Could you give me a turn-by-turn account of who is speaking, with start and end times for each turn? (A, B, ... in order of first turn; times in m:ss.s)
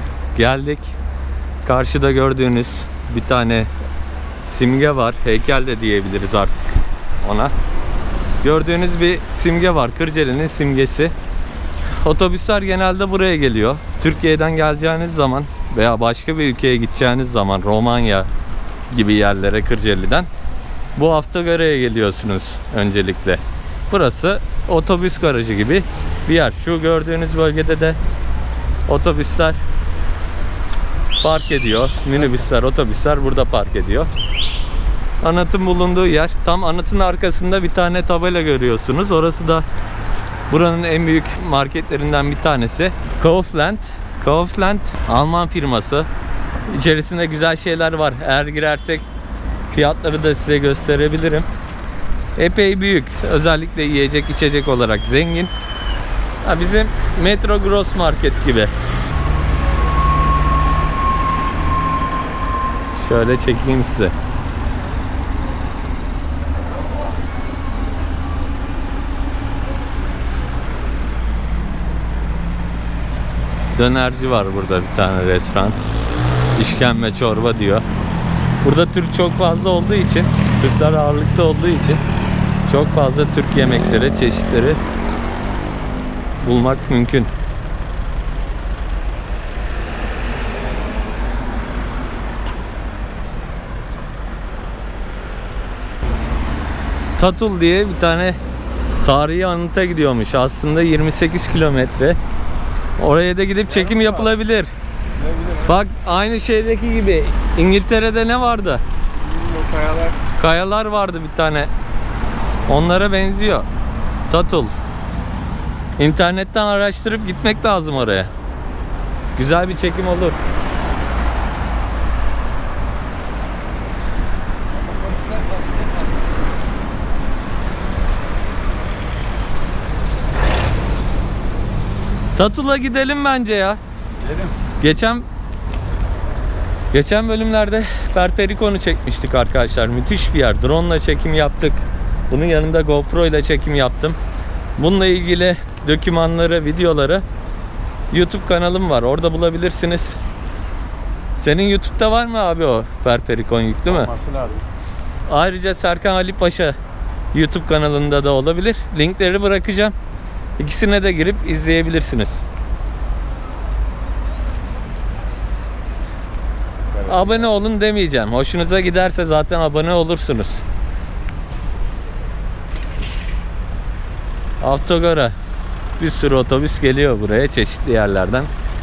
0:00.3-0:00.9 A
0:01.6-0:03.7 A
0:04.4-0:06.7 A
0:07.2-0:07.5 A
0:08.4-0:11.1 A
0:12.0-0:18.3 A
0:18.9-0:20.3 A
0:21.0-0:28.0 A
0:28.9-0:29.6 A
0:31.2-0:34.1 A
0:35.2-0:39.6 A
0:40.5-0:46.1 A
0:46.7-0:49.1 A
0:49.7-0:51.5 A
0:52.4-0:55.5 A
0:56.4-0:58.7 A
1:02.9-1:04.1 A
1:13.7-1:15.9 A
1:16.5-1:17.8 A
1:18.6-1:22.0 A
1:22.6-1:24.8 A
1:26.4-1:27.3 A
1:37.2-1:38.4 A
1:39.0-1:42.2 A
1:43.0-1:44.7 A
1:43.8-1:44.2 B
1:45.2-1:45.6 B
1:45.6-1:48.8 A
1:49.2-1:50.2 B
1:50.4-1:51.7 A
1:52.7-1:53.6 A
1:54.3-1:54.7 A
1:56.0-1:58.3 A
1:59.3-2:00.4 A
2:12.4-2:13.8 A
2:14.8-2:15.2 A
2:16.9-2:24.2 A
2:24.8-2:27.2 A
2:28.1-2:30.2 A
2:31.4-2:34.1 A
2:33.9-2:34.6 B
2:34.8-2:36.8 A
2:37.3-2:39.9 A
2:40.6-2:42.4 A
2:47.0-2:50.6 A
2:54.6-2:55.3 A
2:56.0-2:58.5 A